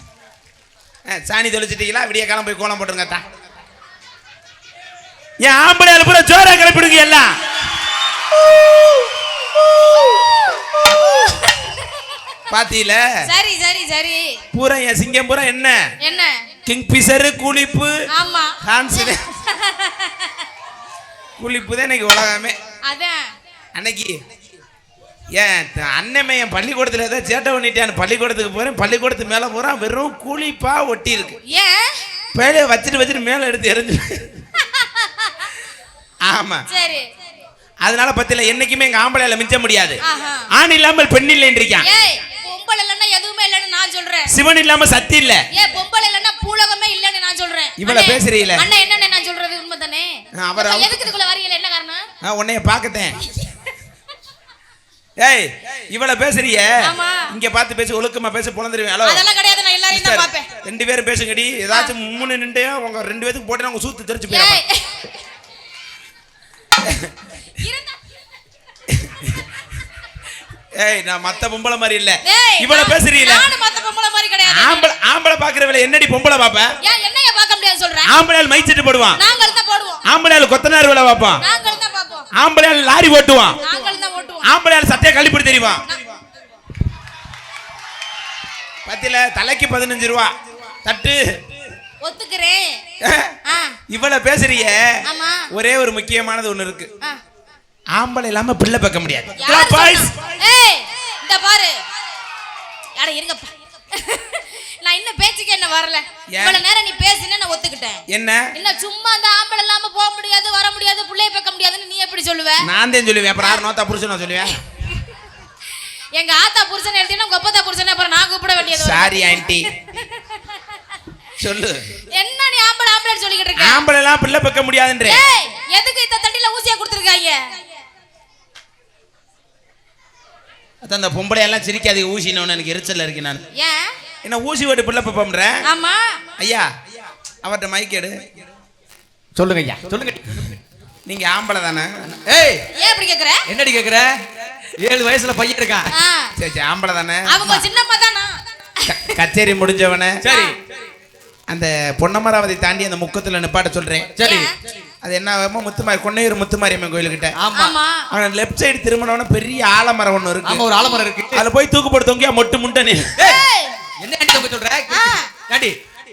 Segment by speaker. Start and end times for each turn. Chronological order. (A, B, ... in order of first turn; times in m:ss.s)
0:01.1-0:03.2 A
0:05.4-0:07.3 A
0:11.4-0:11.8 B
0:12.5-0:13.0 A
0:13.2-0:14.4 B
0:14.5-0:15.8 A
0:16.0-0:16.4 B
0:16.6-0:17.9 A
0:18.1-0:20.4 B
0:18.6-0:19.2 A
0:21.4-0:22.6 A
0:22.8-0:23.2 B
0:23.7-0:24.1 A
0:25.4-0:31.4 A
0:31.5-0:32.0 B
0:32.3-0:34.3 A
0:34.6-0:35.5 B
0:36.3-0:36.6 A
0:36.7-0:37.0 B
0:37.8-0:40.0 A
0:40.0-0:40.5 B
0:40.5-0:41.9 A
0:41.8-0:44.3 B
0:44.3-0:45.4 A
0:45.5-0:52.0 B
0:47.8-0:48.6 A
0:50.4-0:51.0 A
0:52.2-0:53.2 A
0:55.2-0:59.2 A
0:56.8-0:57.3 B
0:59.0-1:00.5 B
0:59.9-1:04.6 A
1:04.3-1:05.2 B
1:06.8-1:07.1 A
1:07.5-1:08.0 B
1:08.9-1:09.4 A
1:10.8-1:13.5 A
1:12.2-1:14.8 B
1:14.5-1:16.7 A
1:16.8-1:18.1 B
1:18.0-1:19.2 A
1:19.2-1:20.0 B
1:20.0-1:21.4 A
1:21.4-1:22.3 B
1:22.4-1:23.6 A
1:23.6-1:24.5 B
1:24.4-1:25.8 A
1:28.8-1:30.3 A
1:30.8-1:31.2 A
1:32.0-1:32.7 B
1:33.0-1:33.3 A
1:33.4-1:33.8 B
1:33.9-1:34.9 A
1:35.0-1:35.5 B
1:35.5-1:36.9 A
1:38.0-1:40.2 A
1:39.4-1:41.8 B
1:43.0-1:48.0 B
1:46.3-1:46.6 A
1:48.1-1:48.5 A
1:48.5-1:52.6 B
1:52.6-1:54.6 A
1:56.1-2:00.6 B
1:58.7-1:59.7 A
2:01.4-2:01.9 A
2:02.1-2:03.8 B
2:03.6-2:05.2 A
2:05.0-2:07.4 B
2:10.8-2:13.4 A
2:13.5-2:13.9 B
2:14.2-2:15.6 A
2:15.6-2:16.2 B
2:16.4-2:16.7 A
2:17.4-2:18.1 A
2:19.4-2:20.6 C
2:21.1-2:22.1 A
2:22.2-2:22.6 C
2:22.7-2:23.4 B
2:23.5-2:24.2 C
2:24.8-2:25.9 C
2:25.9-2:26.3 B
2:26.4-2:27.7 A
2:27.3-2:29.0 B
2:28.8-2:30.2 A
2:30.2-2:30.6 C
2:30.2-2:30.5 B
2:31.5-2:34.2 A
2:34.2-2:34.5 C
2:34.2-2:34.5 B
2:35.0-2:37.3 A
2:37.4-2:37.8 C
2:37.5-2:38.0 B
2:38.1-2:40.7 A
2:40.4-2:41.4 C
2:41.3-2:43.0 A
2:43.2-2:43.4 C
2:43.2-2:43.8 B
2:44.0-2:45.8 C
2:44.9-2:45.3 B